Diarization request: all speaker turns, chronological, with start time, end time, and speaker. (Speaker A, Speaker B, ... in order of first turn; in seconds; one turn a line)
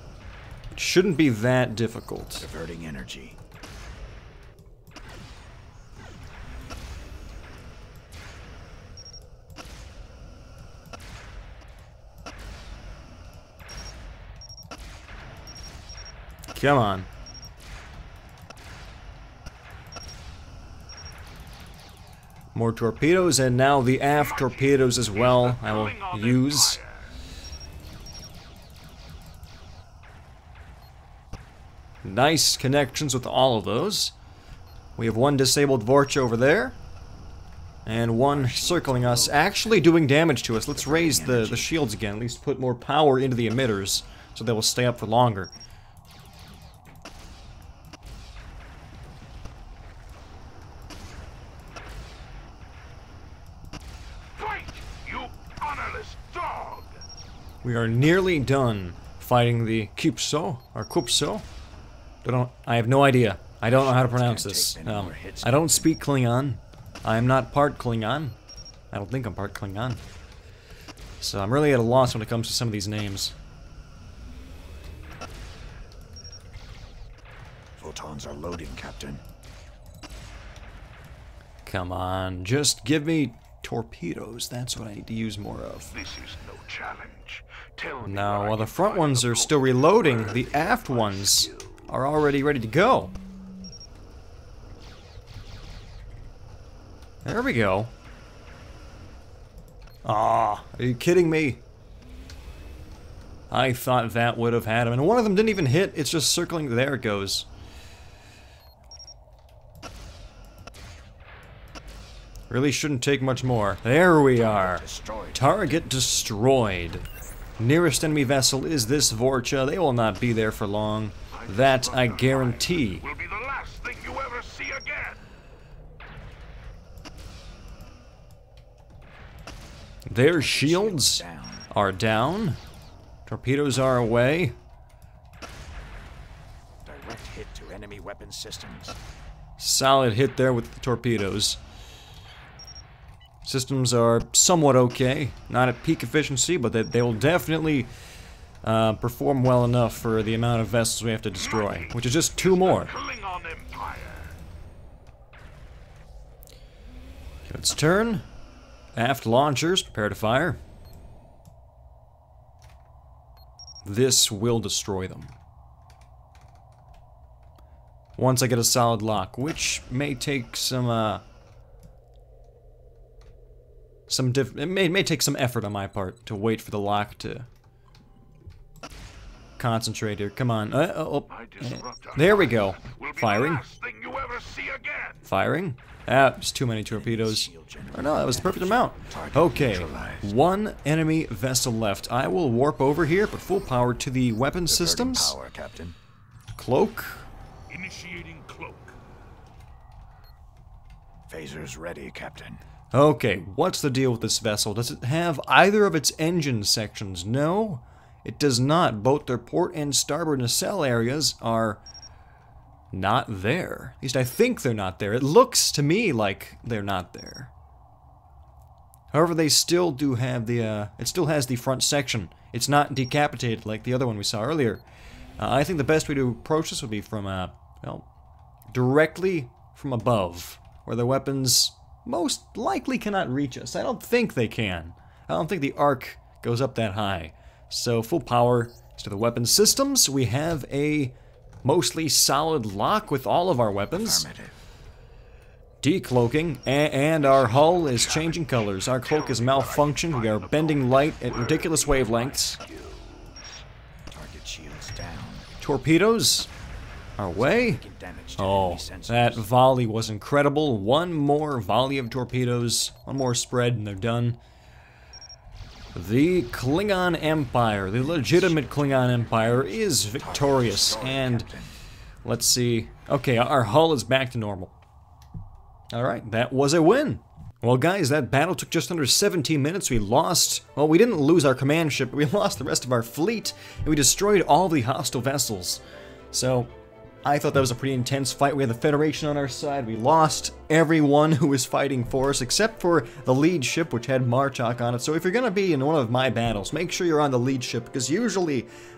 Speaker A: 0.7-2.5
Speaker B: 2.4-3.4
Speaker A: 16.5-17.1
Speaker A: 22.5-26.8
Speaker C: 25.3-26.9
Speaker A: 32.0-34.1
Speaker A: 35.0-36.8
Speaker A: 37.9-45.5
Speaker B: 38.2-39.9
Speaker B: 40.7-41.7
Speaker C: 54.4-56.9
Speaker A: 57.6-61.5
Speaker A: 62.2-68.4
Speaker B: 63.7-65.9
Speaker A: 68.9-70.0
Speaker A: 71.2-73.3
Speaker B: 77.8-79.2
Speaker A: 81.7-86.0
Speaker C: 86.0-89.6
Speaker A: 88.0-93.1
Speaker B: 90.3-90.9
Speaker A: 97.2-97.9
Speaker A: 100.0-101.6
Speaker A: 103.5-107.5
Speaker A: 112.5-117.0
Speaker B: 114.4-115.5
Speaker A: 117.6-123.1
Speaker C: 121.7-122.4
Speaker C: 123.0-125.2
Speaker A: 130.1-132.6
Speaker B: 130.3-131.7
Speaker A: 133.2-134.6
Speaker B: 136.8-139.0
Speaker A: 139.6-141.6
Speaker A: 143.4-147.9
Speaker A: 148.6-153.0
Speaker C: 152.8-154.3
Speaker A: 157.5-158.2
Speaker A: 158.9-160.6
Speaker A: 163.8-165.3
Speaker A: 168.2-171.2
Speaker A: 174.1-177.5
Speaker A: 179.6-183.7
Speaker C: 183.3-185.2
Speaker A: 185.2-195.3
Speaker B: 186.9-190.3
Speaker B: 194.7-195.9
Speaker A: 196.6-197.3
Speaker C: 197.7-198.9
Speaker B: 201.3-202.6
Speaker A: 202.9-211.8
Speaker A: 212.9-217.5
Speaker A: 219.1-224.8
Speaker A: 225.4-228.1
Speaker A: 228.7-244.3
Speaker B: 243.9-244.6
Speaker A: 245.8-252.6
Speaker B: 247.2-248.4
Speaker B: 251.6-252.1
Speaker C: 252.8-253.2
Speaker B: 254.1-255.5
Speaker A: 255.6-256.5
Speaker A: 257.2-257.8
Speaker B: 257.4-259.4
Speaker A: 258.4-264.4
Speaker A: 265.9-271.5
Speaker B: 268.0-271.7
Speaker A: 272.2-274.7
Speaker A: 275.9-286.7
Speaker A: 287.2-298.7